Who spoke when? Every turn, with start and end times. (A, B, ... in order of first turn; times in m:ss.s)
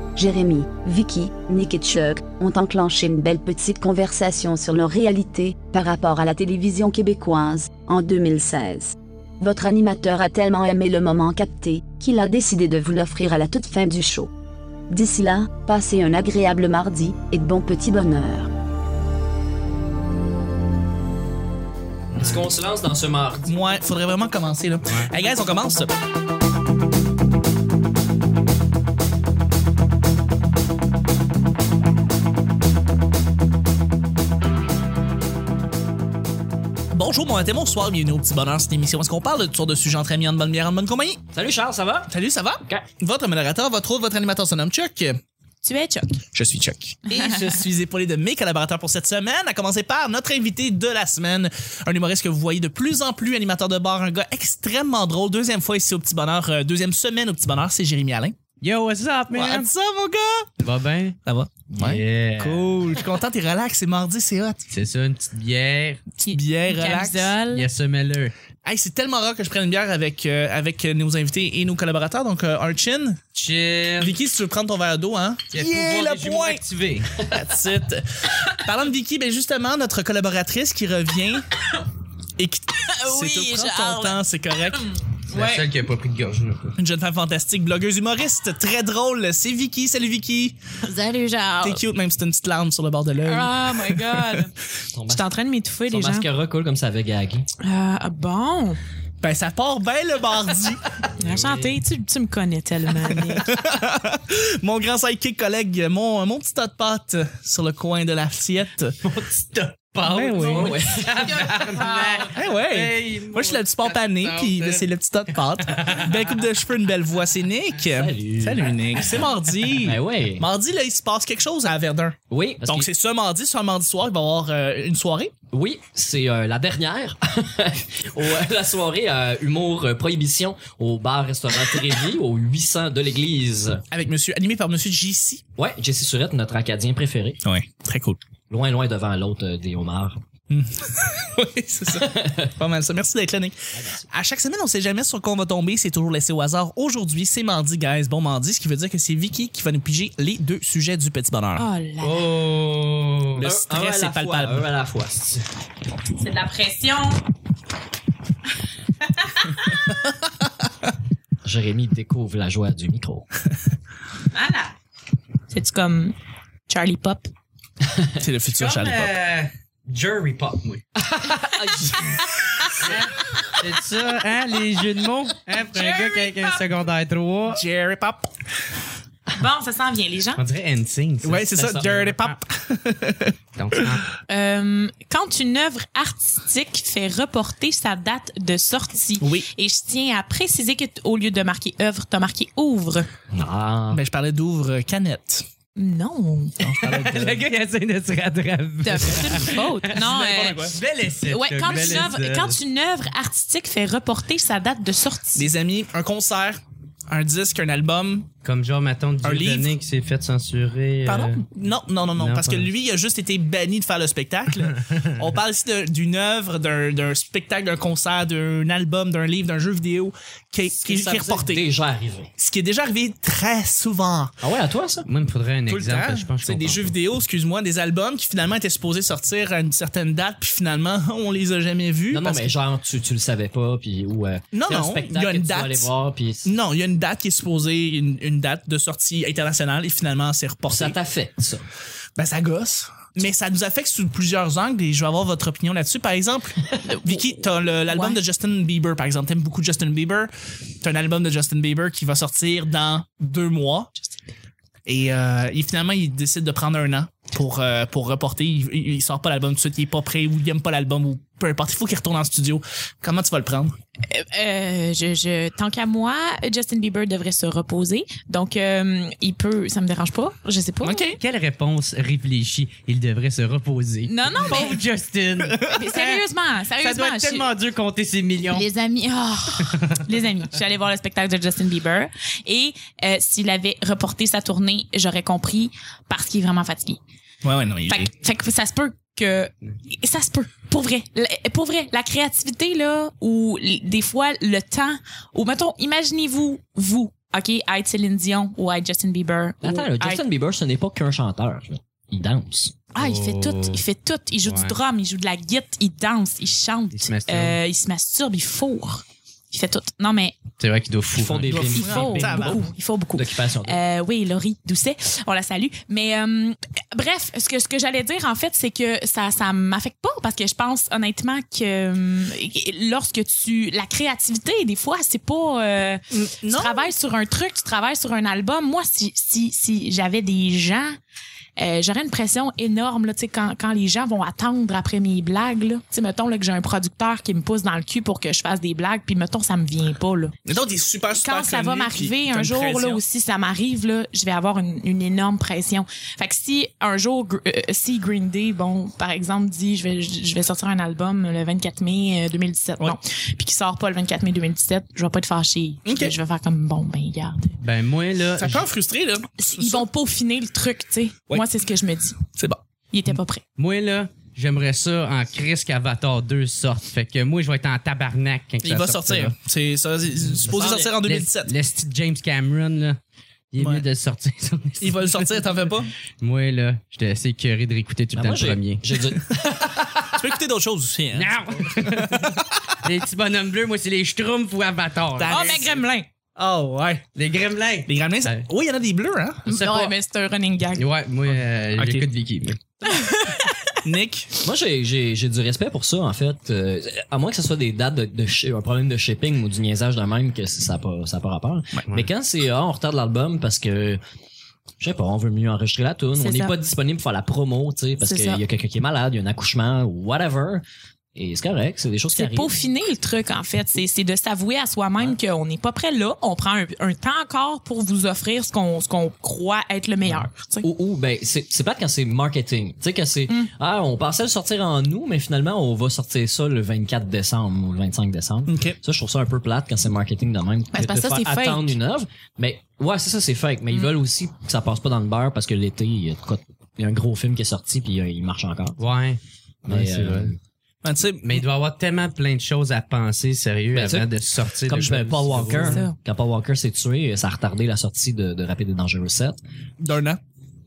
0:00.2-0:14.3 A
0:14.9-0:18.5 A
0:22.1-0:23.8 B
0:23.4-0:25.9 C
0:24.8-0:25.1 D
0:36.9-0:41.2 C
0:41.3-0:42.1 B
0:42.1-0:45.2 C
0:45.6-0:46.2 E
0:46.3-0:58.4 C
0:58.6-0:59.7 D
0:59.3-1:00.5 C
1:00.6-1:01.2 D
1:01.2-1:04.7 C
1:01.7-1:02.9 D
1:04.7-1:06.0 D
1:06.2-1:07.7 E
1:06.3-1:07.3 C
1:07.5-1:08.3 D
1:08.6-1:13.2 C
1:13.3-1:14.2 D
1:14.0-1:16.6 C
1:15.5-1:17.1 D
1:17.2-1:21.5 C
1:22.4-1:24.9 C
1:22.9-1:24.2 E
1:24.8-1:25.7 E
1:25.3-1:26.8 D
1:26.8-1:30.6 C
1:30.8-1:31.8 E
1:31.6-1:34.4 C
1:33.2-1:34.5 E
1:34.9-1:35.3 B
1:35.1-1:36.3 E
1:35.9-1:37.5 B
1:37.6-1:38.8 E
1:39.2-1:40.9 C
1:41.2-1:43.6 E
1:41.2-1:41.7 D
1:43.1-1:49.0 C
1:49.0-1:54.8 D
1:50.1-1:50.7 C
1:50.3-1:52.3 E
1:50.4-1:51.6 B
1:52.3-2:05.3 C
1:55.6-1:56.4 D
1:57.9-1:58.8 B
1:59.8-2:00.5 B
2:02.3-2:02.9 B
2:05.5-2:13.8 B
2:13.9-2:15.4 C
2:15.6-2:17.4 B
2:17.4-2:18.2 C
2:18.5-2:20.2 B
2:20.5-2:23.6 C
2:21.9-2:22.5 B
2:23.7-2:24.1 B
2:24.1-2:31.7 C
2:31.6-2:32.2 E
2:32.0-2:33.5 D
2:33.4-2:34.7 C
2:33.4-2:35.4 B
2:36.2-2:37.2 E
2:39.0-2:39.8 E
2:41.4-2:43.3 B
2:44.3-2:44.7 E
2:45.5-2:46.2 E
2:46.7-2:47.3 E
2:48.2-2:49.1 C
2:48.5-2:50.8 D
2:51.1-2:52.1 B
2:51.3-2:52.9 E
2:52.8-2:57.6 D
2:55.5-2:56.6 E
2:57.5-2:58.3 C
2:59.3-3:00.4 E
3:00.4-3:02.4 D
3:01.2-3:03.8 C
3:03.6-3:04.0 D
3:04.3-3:13.1 E
3:09.2-3:09.5 C
3:13.3-3:14.0 B
3:13.9-3:15.5 C
3:15.8-3:16.7 E
3:16.6-3:17.5 C
3:16.8-3:22.6 D
3:18.8-3:25.5 E
3:19.5-3:20.8 C
3:25.4-3:28.3 C
3:28.4-3:31.5 D
3:29.2-3:29.7 C
3:31.1-3:41.6 C
3:32.2-3:32.7 D
3:40.7-3:42.3 B
3:42.4-3:44.4 C
3:44.4-3:45.1 B
3:45.1-3:46.9 D
3:45.7-3:52.5 C
3:52.1-3:56.5 B
3:54.5-3:55.9 C
3:56.4-4:01.0 C
4:00.7-4:01.6 B
4:02.2-4:13.9 C
4:06.8-4:07.2 E
4:07.9-4:08.2 E
4:14.8-4:23.8 C
4:24.1-4:31.0 E
4:30.8-4:31.2 C
4:31.2-4:36.2 D
4:34.1-4:34.8 E
4:35.7-4:37.5 E
4:36.8-4:38.6 D
4:38.5-4:47.0 E
4:39.6-4:40.0 D
4:47.4-4:48.1 C
4:47.9-5:00.2 E
4:59.6-5:02.8 B
5:02.9-5:10.4 E
5:03.0-5:03.8 D
5:04.4-5:04.8 D
5:07.0-5:07.6 D
5:10.6-5:11.7 D
5:11.1-5:13.8 B
5:11.5-5:31.0 E
5:11.5-5:12.6 C
5:26.1-5:26.9 C
5:31.6-5:40.4 E
5:40.5-5:43.0 C
5:41.1-5:57.6 E
5:55.9-5:56.2 C
5:57.6-5:58.7 D
5:58.4-5:59.8 C
5:59.4-6:02.2 E
6:02.4-6:02.6 C
6:02.9-6:03.4 E
6:03.6-6:09.3 D
6:08.6-6:11.5 C
6:10.4-6:10.9 B
6:10.6-6:13.0 D
6:13.5-6:15.6 D
6:14.8-6:15.9 C
6:16.2-6:19.0 D
6:18.1-6:19.4 B
6:19.8-6:22.5 C
6:21.1-6:25.8 D
6:25.2-6:25.8 C
6:25.3-6:26.1 E
6:26.4-6:27.0 C
6:27.2-6:28.5 D
6:27.9-6:29.5 C
6:29.5-6:29.9 D
6:29.5-6:30.8 E
6:30.8-6:32.6 D
6:31.3-6:32.1 C
6:32.8-6:33.8 E
6:33.8-6:34.3 C
6:34.4-6:44.0 B
6:44.8-6:50.6 B
6:46.2-6:46.6 E
6:48.0-6:48.4 E
6:51.2-6:52.5 B
6:52.2-7:00.7 E
7:00.1-7:18.8 B
7:08.5-7:08.8 C
7:10.7-7:11.8 E
7:18.8-7:20.3 D
7:19.7-7:20.4 B
7:20.8-7:21.4 C
7:21.2-7:25.8 D
7:23.7-7:24.1 B
7:24.6-7:29.4 B
7:25.6-7:26.0 E
7:29.8-7:30.2 C